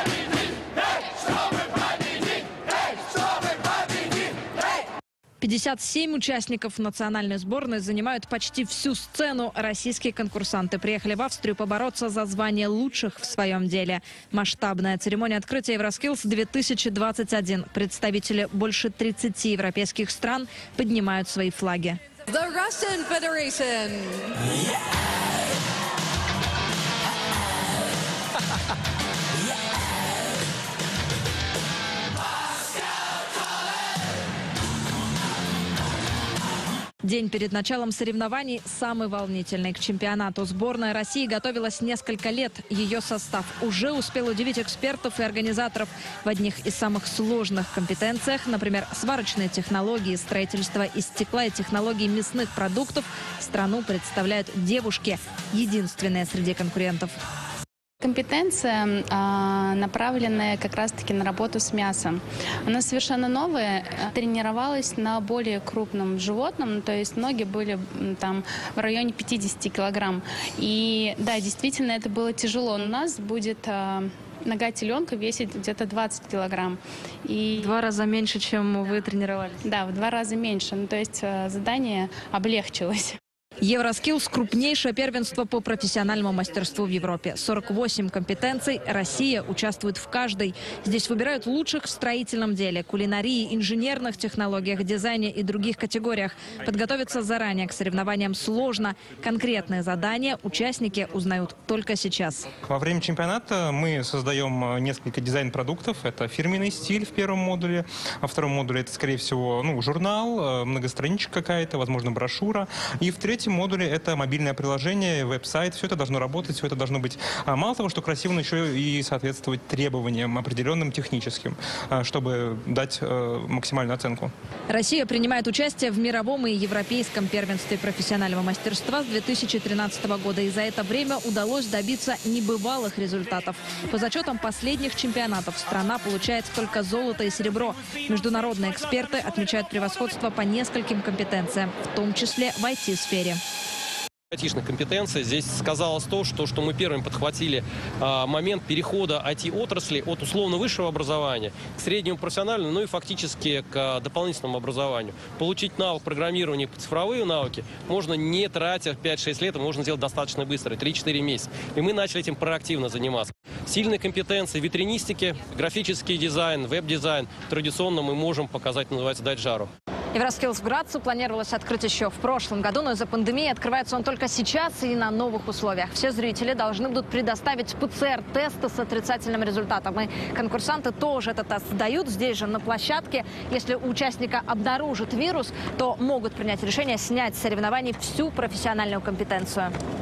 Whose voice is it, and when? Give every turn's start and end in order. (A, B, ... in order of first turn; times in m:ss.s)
0:05.4-0:22.0 A
0:22.3-0:24.3 B
0:37.0-0:57.1 A
0:58.0-1:17.7 C
1:17.6-1:19.6 A
1:19.6-1:23.2 C
1:23.6-1:42.5 A
1:42.7-2:04.3 D
2:04.7-2:23.4 A
2:24.3-2:49.7 E
2:50.1-3:09.7 A